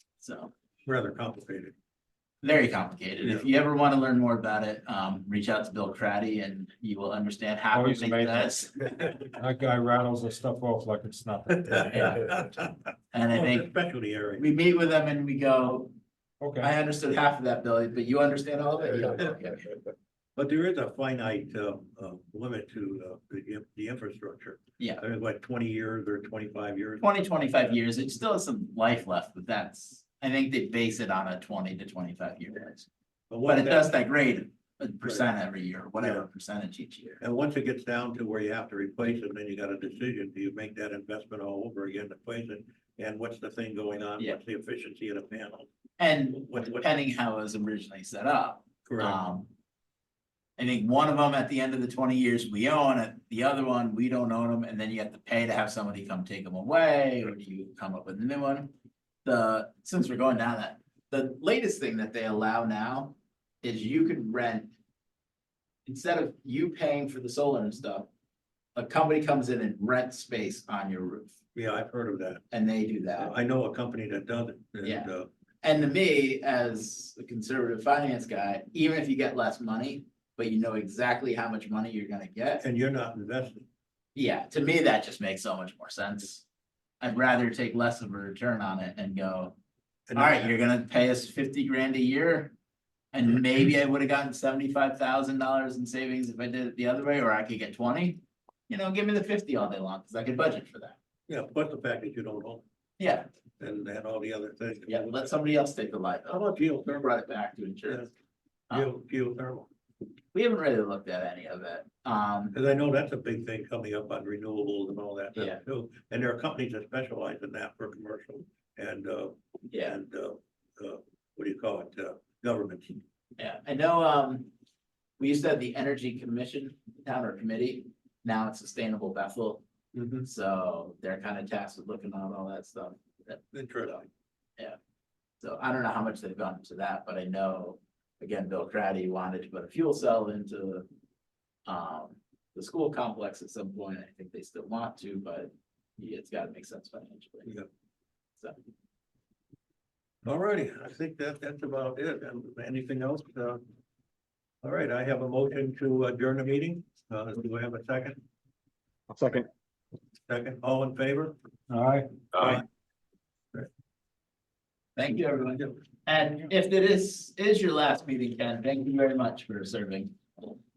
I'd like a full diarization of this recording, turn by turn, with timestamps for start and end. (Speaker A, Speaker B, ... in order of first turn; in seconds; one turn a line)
Speaker A: 0.2-0.5
Speaker B: 0.9-1.7
Speaker A: 2.4-9.3
Speaker C: 7.7-8.6
Speaker C: 9.4-12.3
Speaker B: 11.7-12.8
Speaker A: 11.9-12.2
Speaker A: 13.1-13.7
Speaker B: 13.3-14.5
Speaker A: 14.4-15.9
Speaker C: 16.4-16.7
Speaker A: 16.6-19.7
Speaker B: 20.4-27.1
Speaker A: 27.0-32.9
Speaker B: 33.3-33.9
Speaker A: 33.4-37.2
Speaker B: 36.0-36.3
Speaker B: 37.2-45.7
Speaker A: 46.0-49.5
Speaker B: 46.4-46.9
Speaker B: 48.9-49.2
Speaker A: 50.6-58.7
Speaker A: 59.2-64.7
Speaker A: 65.9-68.1
Speaker A: 68.8-71.4
Speaker B: 71.5-72.4
Speaker A: 72.5-73.3
Speaker B: 73.2-75.3
Speaker A: 74.8-75.1
Speaker A: 75.6-82.6
Speaker B: 82.6-83.7
Speaker A: 84.2-86.5
Speaker A: 87.0-89.6
Speaker B: 90.1-90.5
Speaker A: 90.2-92.5
Speaker A: 93.1-101.0
Speaker B: 101.3-102.6
Speaker A: 103.0-103.3
Speaker B: 103.6-105.3
Speaker A: 104.9-108.1
Speaker B: 106.3-107.0
Speaker B: 108.7-109.7
Speaker A: 110.3-112.5
Speaker B: 112.5-123.0
Speaker A: 115.3-115.6
Speaker A: 119.7-120.0
Speaker A: 123.4-124.5
Speaker A: 125.2-129.6
Speaker B: 129.9-130.3
Speaker A: 130.2-134.1
Speaker B: 133.5-134.0
Speaker A: 135.4-140.9
Speaker A: 141.7-147.5
Speaker B: 150.2-153.6
Speaker B: 154.6-158.2
Speaker B: 160.3-161.4
Speaker C: 161.7-162.1
Speaker B: 162.3-162.7
Speaker A: 165.0-170.5